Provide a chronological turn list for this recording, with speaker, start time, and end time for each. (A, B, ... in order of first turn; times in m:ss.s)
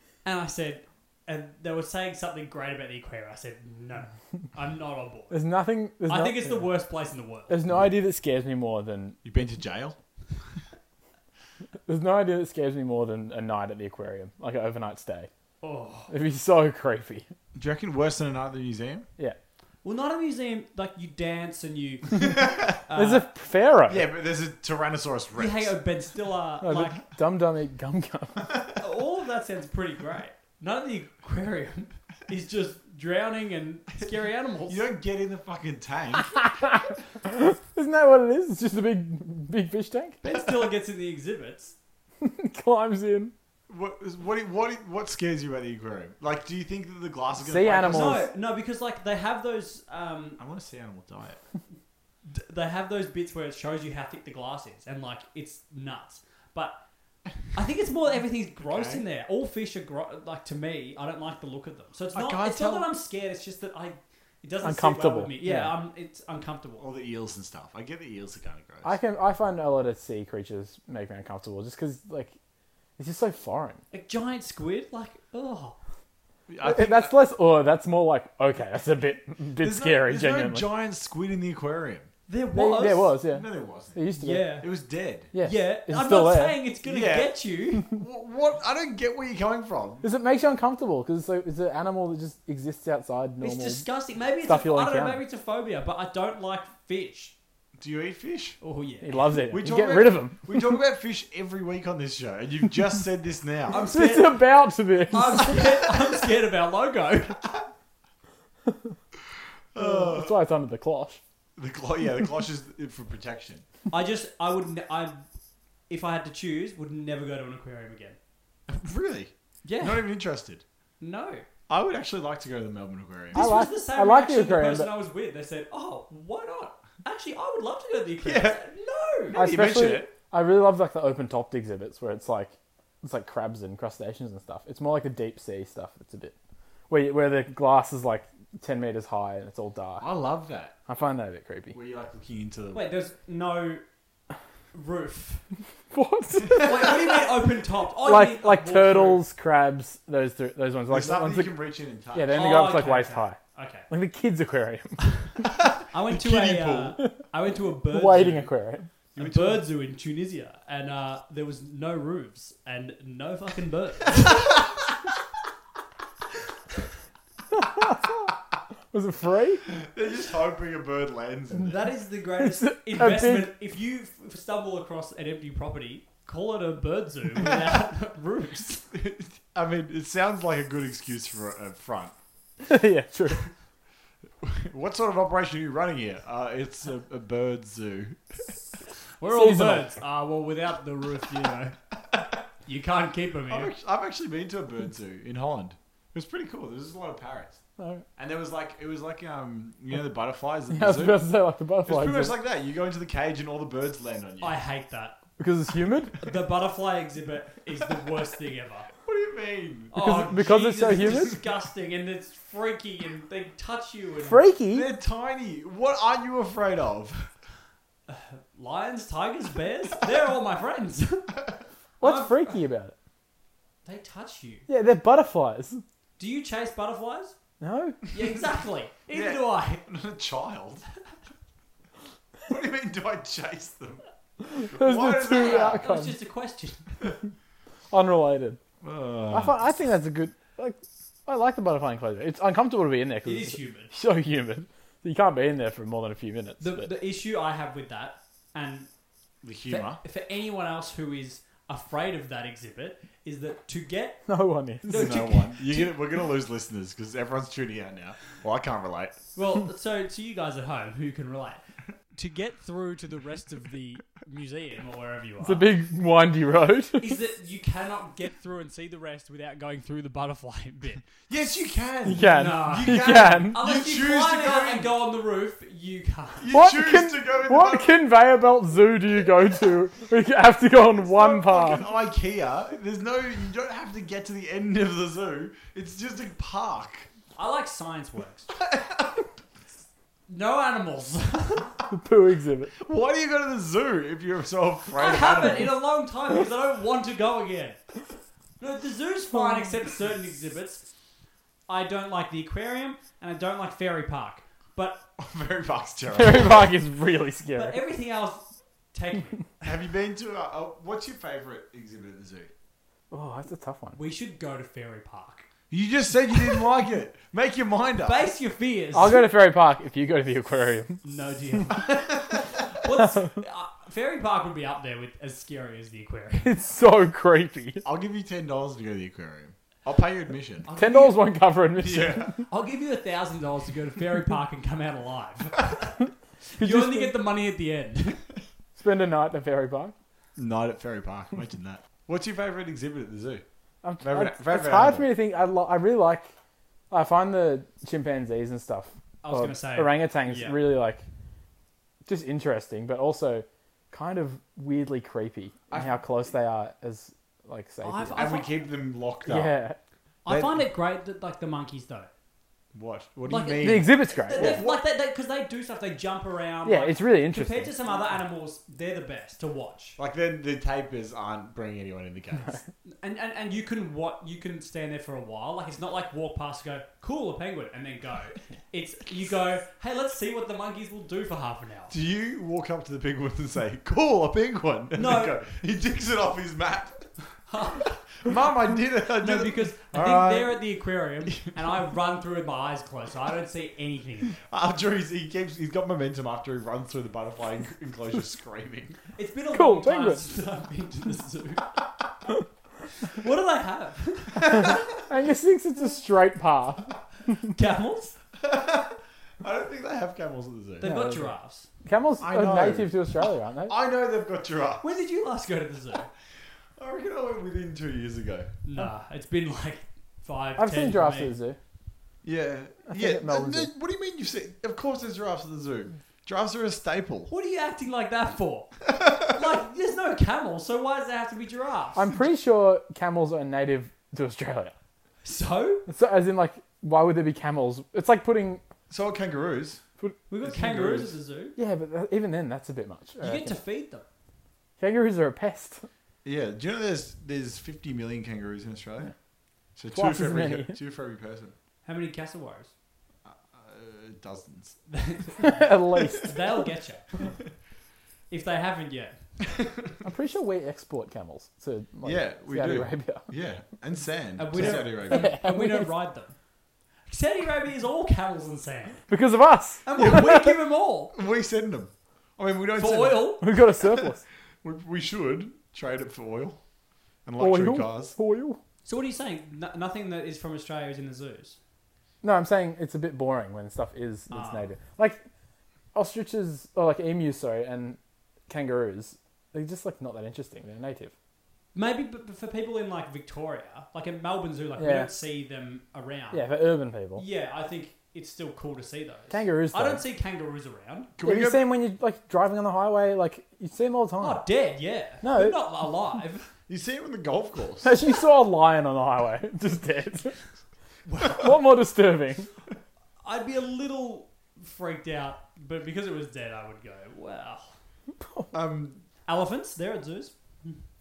0:00.2-0:05.4 A
0:05.3-0:06.7 B
0:06.1-0:07.6 A
0:07.5-0:09.2 B
0:09.2-0:10.0 C
0:11.8-0:15.3 B
0:15.6-0:16.1 A
0:16.1-0:17.2 B
0:17.5-0:19.1 C
0:19.8-0:23.3 A
0:22.2-0:22.8 C
0:22.9-0:24.0 B
0:23.9-0:25.8 C
0:25.3-0:27.0 A
0:26.6-0:28.6 B
0:28.4-0:28.7 C
0:28.8-0:34.8 A
0:34.7-0:36.5 C
0:36.3-0:40.2 B
0:40.2-0:41.8 A
0:42.2-0:43.3 B
0:43.7-0:48.3 C
0:47.4-0:48.3 B
0:47.9-0:50.4 A
0:50.4-0:51.4 C
0:52.2-0:56.8 A
0:57.5-1:06.8 A
0:58.6-0:59.0 C
1:02.1-1:02.9 C
1:04.6-1:05.7 B
1:06.8-1:09.0 C
1:08.8-1:12.3 B
1:13.0-1:13.8 B
1:13.9-1:15.8 A
1:16.5-1:17.1 C
1:16.6-1:20.6 B
1:19.6-1:22.1 C
1:22.3-1:23.1 A
1:22.5-1:24.6 B
1:23.2-1:25.3 C
1:24.2-1:24.7 A
1:25.3-1:26.6 B
1:25.4-1:27.9 A
1:26.8-1:30.1 C
1:30.0-1:33.8 B
1:33.4-1:37.3 A
1:34.4-1:35.2 B
1:37.8-1:38.6 C
1:38.6-1:39.2 A
1:39.0-1:40.6 B
1:39.5-1:43.8 C
1:43.7-1:44.4 A
1:43.8-1:45.6 B
1:45.1-1:47.4 A
1:48.6-1:49.0 B
1:49.7-1:50.3 C
1:49.8-1:51.2 B
1:51.6-1:53.6 C
1:53.9-1:55.2 A
1:55.9-1:58.2 A
1:58.7-2:00.6 C
1:59.6-2:00.0 A
2:01.0-2:01.4 A
2:01.7-2:03.5 C
2:03.3-2:04.9 B
2:03.3-2:09.4 A
2:08.2-2:08.6 C
2:09.3-2:10.1 C
2:09.3-2:16.3 B
2:16.9-2:20.0 B
2:20.0-2:20.8 C
2:20.9-2:21.7 B
2:21.7-2:22.9 C
2:22.7-2:23.8 A
2:24.7-2:25.4 A
2:25.9-2:26.9 B
2:26.5-2:29.2 A
2:26.5-2:26.9 C
2:28.0-2:31.5 B
2:30.9-2:32.4 C
2:32.1-2:33.4 B
2:32.3-2:33.9 A
2:33.9-2:35.4 B
2:35.5-2:37.0 C
2:35.9-2:38.5 A
2:37.9-2:38.9 B
2:39.1-2:44.6 A
2:39.2-2:39.7 C
2:47.5-2:48.4 B
2:48.9-2:49.6 B
2:49.7-2:51.9 C
2:51.7-2:58.8 A
2:52.4-2:53.5 B
2:57.4-2:57.8 C
2:58.9-3:02.1 C
3:02.6-3:03.4 B
3:04.4-3:08.5 C
3:09.2-3:11.8 A
3:09.3-3:09.9 B
3:12.6-3:13.7 A
3:13.5-3:17.6 C
3:17.8-3:18.0 B
3:18.2-3:21.2 C
3:20.7-3:22.4 B
3:21.8-3:24.6 C
3:24.4-3:25.2 A
3:25.4-3:26.1 B
3:26.2-3:28.9 A
3:29.0-3:30.3 C
3:29.9-3:34.4 A
3:29.9-3:31.4 B
3:34.2-3:34.9 B
3:34.7-3:37.3 C
3:38.1-3:41.3 A
3:42.0-3:42.9 B
3:42.0-3:42.6 A
3:43.8-3:44.6 A
3:44.7-3:45.8 B
3:46.2-3:47.4 A
3:47.6-3:48.0 B
3:48.1-3:49.8 A
3:49.1-3:50.8 C
3:52.5-3:55.9 C
3:54.4-3:56.1 B
3:55.2-3:57.0 A
3:57.9-3:58.6 B
3:58.8-3:59.6 C
3:59.3-4:06.9 B
4:03.2-4:03.9 A
4:06.6-4:08.9 A
4:09.4-4:10.0 C
4:09.7-4:14.2 A
4:14.2-4:15.1 B
4:14.8-4:16.0 A
4:14.9-4:19.2 C
4:19.3-4:21.6 A
4:22.1-4:25.7 A
4:25.4-4:27.1 B
4:27.0-4:31.0 A
4:31.3-4:34.9 C
4:32.0-4:33.6 B
4:32.3-4:36.6 A
4:36.4-4:38.0 C
4:36.5-4:41.8 B
4:41.0-4:47.1 C
4:47.4-4:48.5 A
4:48.6-4:49.3 C
4:50.3-4:51.7 A
4:51.9-4:52.7 B
4:52.8-4:55.8 C
4:54.9-4:57.8 A
4:58.6-5:00.8 A
4:59.3-4:59.7 B
5:01.7-5:05.0 A
5:05.2-5:06.8 C
5:06.1-5:07.8 B
5:07.5-5:09.7 A
5:09.6-5:12.5 C
5:13.1-5:14.0 B
5:13.9-5:15.4 A
5:15.7-5:18.2 C
5:18.0-5:19.2 A
5:18.9-5:21.0 B
5:21.0-5:26.5 A
5:21.9-5:22.5 C
5:23.0-5:23.4 B
5:26.4-5:27.8 B
5:27.8-5:30.7 C
5:30.6-5:31.2 A
5:30.7-5:32.4 B
5:31.8-5:32.4 C
5:32.5-5:38.2 A
5:36.6-5:37.1 B
5:38.8-5:39.9 B
5:40.4-5:43.4 C
5:43.8-5:46.3 B
5:44.0-5:45.1 C
5:46.9-5:51.0 B
5:49.2-5:50.6 A
5:52.0-5:58.2 B
5:57.8-5:58.7 A
5:58.1-5:59.6 C
5:59.2-5:59.8 B
6:00.2-6:02.1 A
6:00.3-6:00.6 C
6:02.7-6:04.8 C
6:03.3-6:10.0 A
6:03.6-6:04.6 B
6:06.6-6:07.7 B
6:10.0-6:12.6 C
6:12.8-6:21.9 A
6:21.9-6:27.1 C
6:25.0-6:25.3 A
6:27.4-6:27.9 A
6:27.8-6:30.6 C
6:29.2-6:34.4 A
6:34.5-6:39.0 C
6:39.2-6:41.7 A
6:39.5-6:40.2 B
6:43.0-6:44.6 A
6:44.5-6:47.4 B
6:47.5-6:48.2 A
6:48.4-6:50.9 C
6:50.8-6:51.3 B
6:50.8-6:51.7 A
6:51.8-6:53.7 B
6:52.2-6:54.8 C
6:54.8-6:56.1 A
6:56.8-6:58.5 C
6:58.6-7:01.3 A
7:00.6-7:01.6 B
7:02.2-7:07.3 C
7:02.9-7:03.7 B
7:07.3-7:12.0 A
7:08.9-7:09.2 C
7:11.9-7:14.7 B
7:15.2-7:15.8 A
7:15.9-7:18.6 B
7:18.9-7:19.8 C
7:20.3-7:21.6 A
7:20.4-7:21.2 C
7:21.6-7:23.6 B
7:23.2-7:24.0 A
7:24.8-7:25.8 B
7:26.2-7:29.1 C
7:29.8-7:31.5 C
7:29.9-7:30.8 B
7:31.8-7:32.7 A
7:33.2-7:34.8 C
7:34.9-7:37.1 A
7:35.4-7:36.3 B
7:38.3-7:39.2 A
7:40.0-7:43.3 B
7:42.0-7:45.4 C
7:44.4-7:46.3 A
7:44.6-7:45.9 B
7:47.1-7:49.0 A
7:49.1-7:50.5 B
7:49.8-7:51.1 A
7:50.0-7:50.5 C
7:51.1-7:54.1 C
7:52.8-7:53.5 A
7:53.4-7:54.2 B
7:54.6-7:56.6 C
7:57.2-7:58.2 C
7:57.4-7:58.6 B
7:58.8-8:01.6 A
8:02.2-8:05.2 B
8:04.3-8:04.7 A
8:05.9-8:11.1 B
8:11.7-8:16.4 A
8:14.8-8:15.1 B
8:16.3-8:17.2 B
8:17.2-8:21.1 A
8:19.3-8:20.0 B
8:21.2-8:21.7 C
8:21.2-8:24.4 B
8:24.2-8:26.5 A
8:25.2-8:25.6 B
8:26.7-8:28.0 C
8:27.8-8:30.4 B
8:31.1-8:31.5 A
8:31.3-8:32.5 B
8:33.2-8:37.7 A
8:38.2-8:38.5 B
8:38.5-8:39.0 C
8:39.2-8:40.8 A